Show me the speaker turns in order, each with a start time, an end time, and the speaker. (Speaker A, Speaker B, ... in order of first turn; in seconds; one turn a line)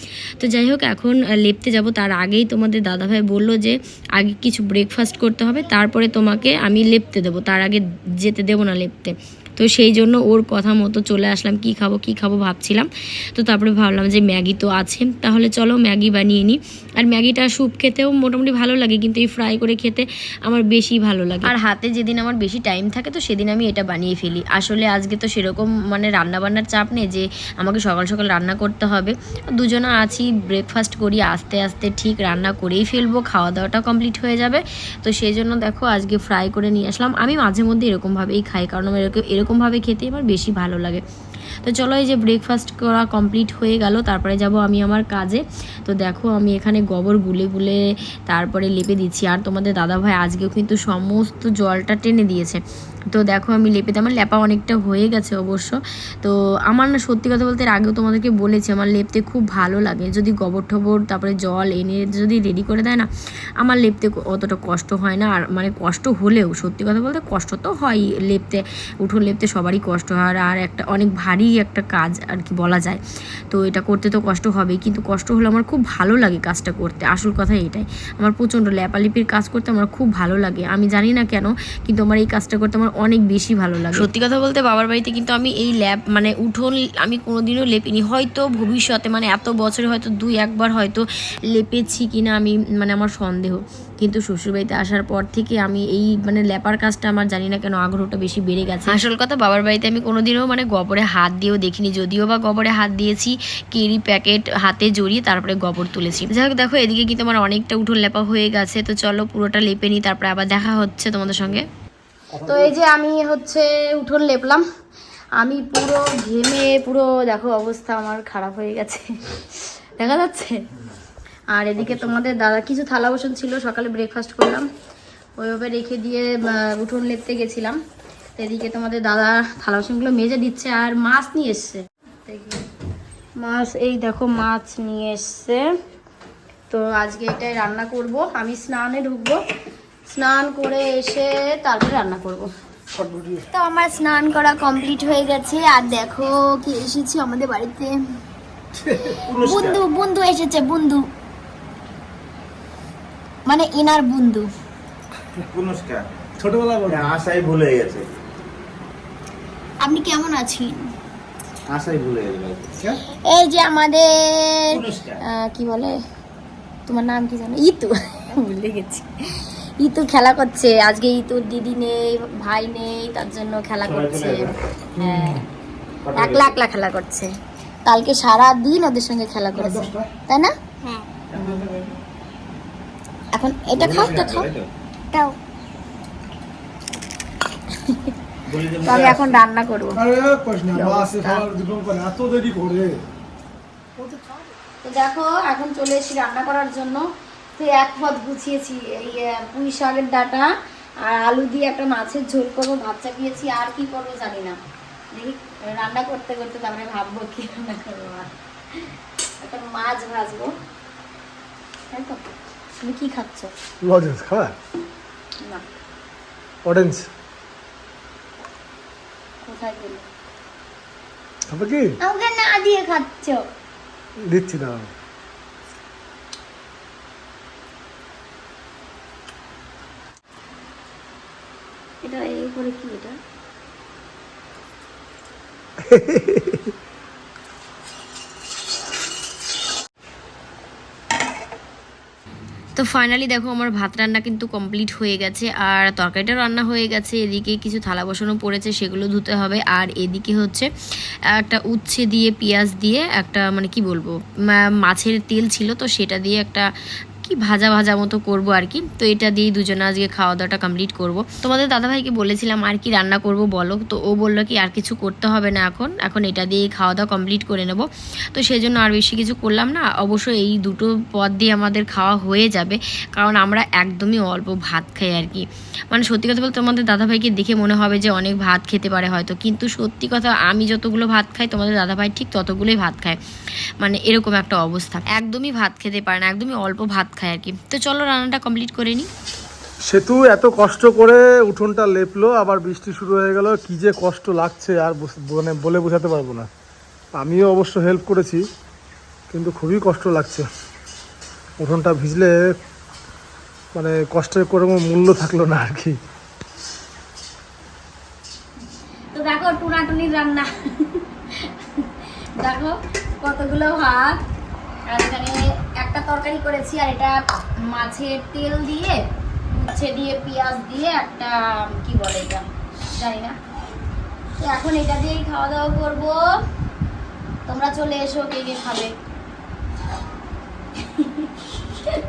Speaker A: 0.4-41.0
Speaker A: 41.6-63.1
Speaker A: 63.6-73.0
Speaker A: 73.5-111.7
Speaker B: 112.3-112.7
Speaker C: 112.5-114.6
Speaker C: 115.4-120.6
Speaker C: 121.5-124.7
Speaker B: 121.8-122.1
Speaker C: 125.4-127.8
Speaker C: 128.4-132.6
Speaker C: 133.4-135.6
Speaker C: 136.7-139.4
Speaker C: 140.1-142.5
Speaker B: 142.9-143.5
Speaker C: 143.5-147.9
Speaker B: 148.8-149.2
Speaker D: 149.3-149.8
Speaker C: 149.4-151.1
Speaker C: 153.5-154.5
Speaker D: 155.5-156.1
Speaker B: 156.4-157.1
Speaker D: 156.9-158.2
Speaker C: 159.8-160.8
Speaker D: 161.7-162.8
Speaker C: 163.2-166.0
Speaker D: 164.7-165.2
Speaker C: 166.9-175.4
Speaker D: 173.8-174.6
Speaker D: 176.1-176.6
Speaker C: 176.1-177.3
Speaker C: 177.9-181.0
Speaker B: 179.6-180.1
Speaker D: 181.3-181.7
Speaker C: 183.3-184.5
Speaker D: 183.8-184.7
Speaker C: 187.8-188.1
Speaker D: 188.5-189.4
Speaker C: 188.8-190.0
Speaker B: 190.0-193.0
Speaker C: 190.7-191.4
Speaker B: 194.0-194.3
Speaker C: 194.8-197.1
Speaker C: 197.6-200.5
Speaker C: 201.1-204.6
Speaker C: 205.2-208.3
Speaker C: 209.4-210.5
Speaker C: 211.9-212.2
Speaker C: 212.8-213.5
Speaker B: 213.8-214.5
Speaker B: 216.7-217.1
Speaker C: 219.4-220.1
Speaker B: 221.5-221.9
Speaker C: 222.0-223.4
Speaker B: 224.3-224.9
Speaker C: 232.0-233.2
Speaker B: 235.8-236.7
Speaker A: 242.8-250.7
Speaker A: 251.3-256.7
Speaker A: 257.2-283.2
Speaker A: 283.8-289.1
Speaker B: 289.9-296.5
Speaker B: 297.1-298.4
Speaker B: 299.3-300.5
Speaker B: 301.6-302.5
Speaker B: 303.8-306.0
Speaker C: 309.1-311.9
Speaker C: 312.4-314.2
Speaker C: 314.9-319.0
Speaker C: 319.6-322.4
Speaker C: 323.0-323.4
Speaker C: 324.4-326.2
Speaker C: 327.5-328.9
Speaker C: 330.9-331.3